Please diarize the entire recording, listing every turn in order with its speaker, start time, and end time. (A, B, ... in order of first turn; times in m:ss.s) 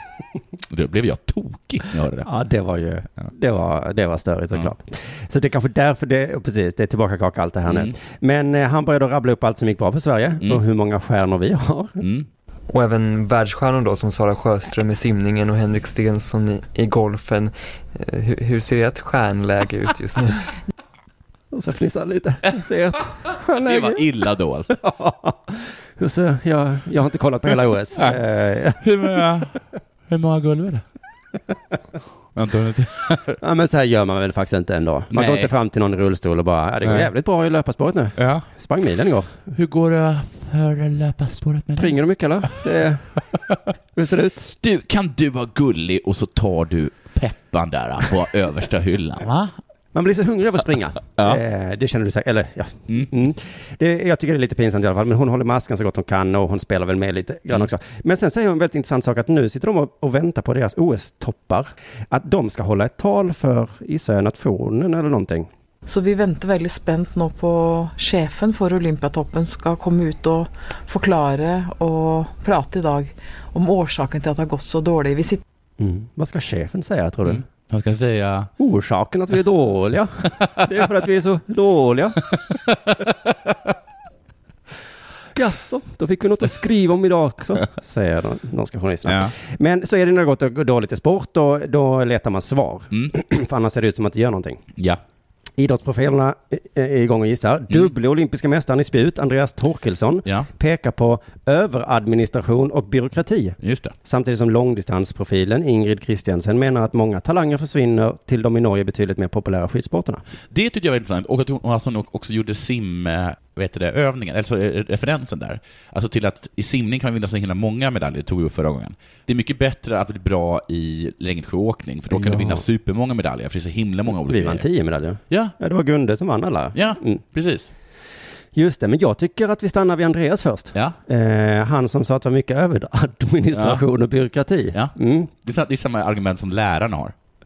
0:00.7-0:02.3 A
0:02.2-0:12.0 B
0:07.7-0:07.9 A
0:12.0-0:12.3 A
0:12.7-0:20.5 C
0:21.5-0:24.0 B
0:23.6-0:24.8 A
0:24.7-0:29.0 B
0:28.8-0:30.8 A
0:32.3-0:33.4 A
0:33.4-0:39.4 B
0:35.1-0:35.5 A
0:36.8-0:37.1 A
0:38.2-0:38.5 A
0:39.5-0:42.0 A
0:41.8-0:43.3 B
0:43.9-0:44.5 B
0:44.6-0:49.6 A
0:49.9-1:05.5 B
1:05.8-1:15.4 D
1:15.8-1:17.4 B
1:17.2-1:18.5 A
1:18.6-1:22.2 B
1:22.3-1:23.5 A
1:25.3-1:34.6 B
1:29.0-1:29.3 A
1:35.6-1:50.2 B
1:43.6-1:43.9 A
1:50.5-2:04.6 A
2:02.1-2:02.6 B
2:04.1-2:07.2 B
2:05.3-2:05.5 A
2:06.7-2:07.7 A
2:08.5-2:15.3 B
2:13.5-2:13.8 A
2:14.7-2:17.1 A